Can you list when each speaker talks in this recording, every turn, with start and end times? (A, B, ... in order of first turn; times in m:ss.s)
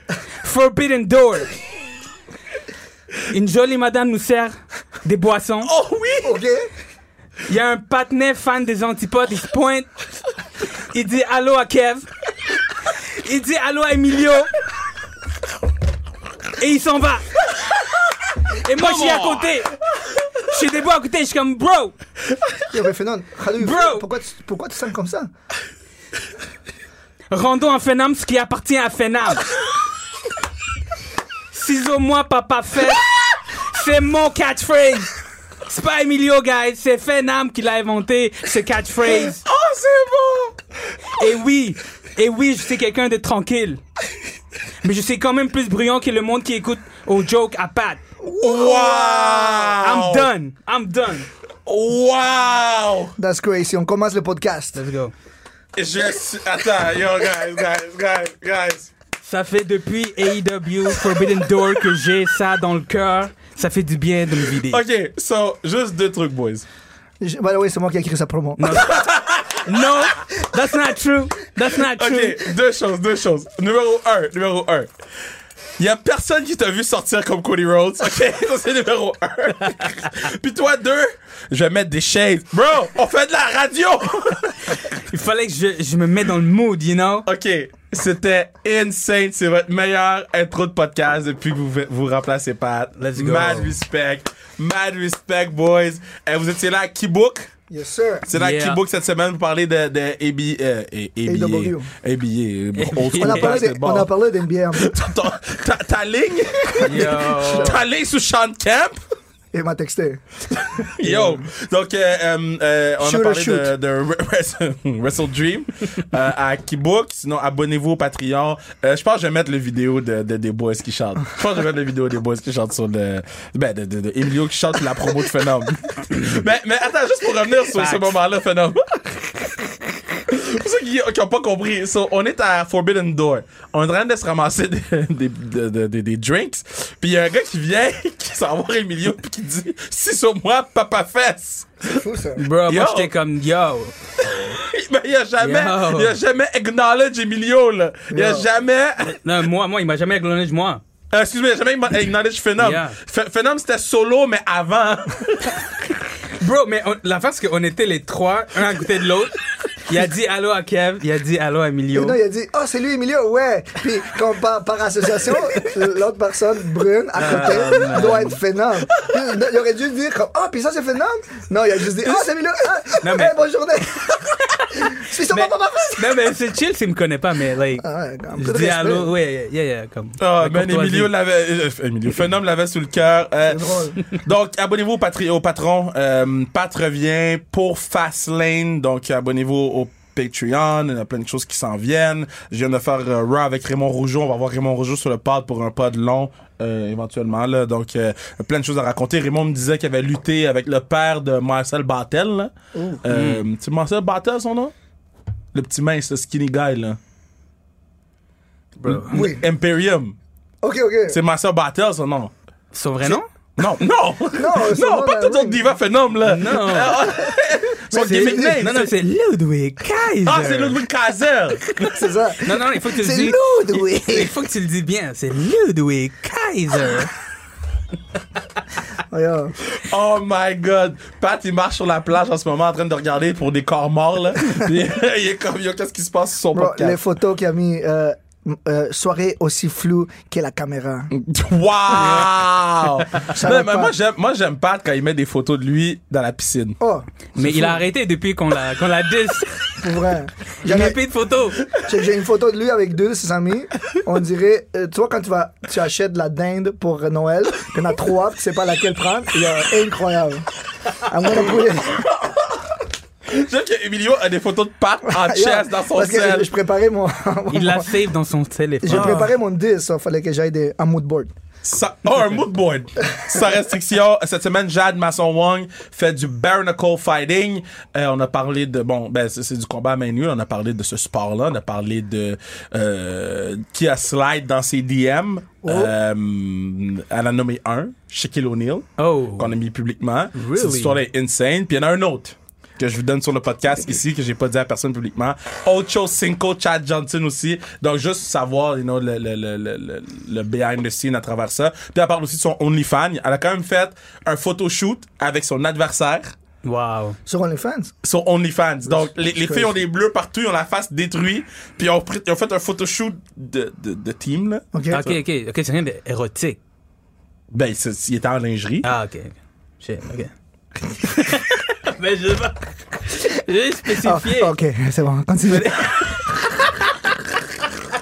0:00.4-0:01.5 A
0:03.3-0:05.7 A
0:05.6-0:06.3 B
0:06.2-0:06.7 C
0:07.5-0:09.9 A
0:10.8-0:12.1 A
0:13.2-0:14.5 A
0:16.6-0:17.2 A
0:18.5-0:19.7 A
0:18.8-0:19.5 B
0:20.4-0:21.9 A
0:22.7-0:25.3 C
0:23.6-0:24.1 A
0:27.3-0:29.5 A
0:31.5-0:35.1 A
0:35.6-0:39.4 A
0:39.0-0:40.6 B
0:41.1-0:43.8 A
0:44.8-0:48.0 A
0:48.2-0:49.8 C
0:48.4-0:50.3 B
0:49.8-0:51.3 A
0:51.6-0:53.1 B
0:53.2-0:54.8 C
0:54.7-0:55.1 A
0:55.8-0:58.9 B
0:59.2-1:04.8 A
1:04.7-1:06.6 B
1:07.2-1:08.8 C
1:08.6-1:09.0 A
1:08.7-1:09.7 B
1:09.6-1:12.4 A
1:11.9-1:14.9 B
1:15.8-1:24.8 B
1:24.7-1:27.3 A
1:27.2-1:37.5 B
1:33.0-1:33.7 A
1:37.7-1:38.3 C
1:38.3-1:44.1 B
1:38.3-1:38.8 A
1:41.2-1:41.9 C
1:42.8-1:43.6 A
1:43.2-1:44.9 C
1:44.7-1:49.0 B
1:46.8-1:47.8 A
1:46.8-1:47.8 C
1:49.5-1:50.2 C
1:50.6-2:22.0 B
1:51.0-1:51.4 C
1:53.0-1:53.7 C
2:07.7-2:08.1 A
2:21.9-2:22.4 C
2:22.4-2:23.9 A
2:22.6-2:23.1 B
2:24.2-2:29.2 B
2:25.4-2:26.1 A
2:28.1-2:28.5 C
2:29.0-2:30.8 A
2:31.1-2:35.7 B
2:32.6-2:33.0 A
2:36.4-2:42.2 A
2:41.9-2:56.2 C
2:47.2-2:48.4 A
2:47.4-2:47.8 B
2:53.0-2:53.3 A
2:54.6-3:01.1 A
2:57.8-2:59.1 C
3:00.2-3:22.5 B
3:03.4-3:04.0 C
3:22.7-3:23.0 C
3:23.0-3:24.7 B
3:23.1-3:23.4 A
3:25.5-3:27.0 B
3:28.8-3:29.2 A
3:28.8-3:30.1 B
3:29.1-3:29.4 C
3:30.6-3:31.2 C
3:31.1-3:32.3 B
3:32.7-3:33.3 A
3:33.6-3:38.9 B
3:34.3-3:35.7 C
3:36.2-3:37.0 A
3:37.9-3:38.6 C
3:38.0-3:40.8 A
3:40.2-3:42.0 B
3:41.9-3:44.3 C
3:42.4-3:47.1 A
3:49.1-3:49.6 C
3:49.8-3:57.0 B
3:56.5-4:01.1 C
4:01.1-4:06.8 B
4:03.3-4:03.9 C
4:06.8-4:07.8 C
4:07.3-4:09.7 A
4:09.8-4:11.0 C
4:10.6-4:11.6 A
4:11.8-4:20.5 C
4:21.0-4:22.1 C
4:23.3-4:26.5 B
4:25.0-4:27.9 C
4:27.5-4:29.3 A
4:28.8-4:31.3 C
4:28.9-4:29.2 B
4:31.6-5:06.3 B
4:45.6-4:45.9 C
4:49.0-4:49.5 A
4:50.4-4:51.0 A
5:06.6-5:07.2 A
5:07.3-5:07.9 C
5:08.0-5:15.2 B
5:08.9-5:09.8 C
5:14.7-5:15.0 C
5:14.9-5:16.6 A
5:17.5-5:18.8 B
5:18.8-5:20.3 A
5:21.0-5:24.5 A
5:24.0-5:26.2 C
5:25.5-5:26.3 A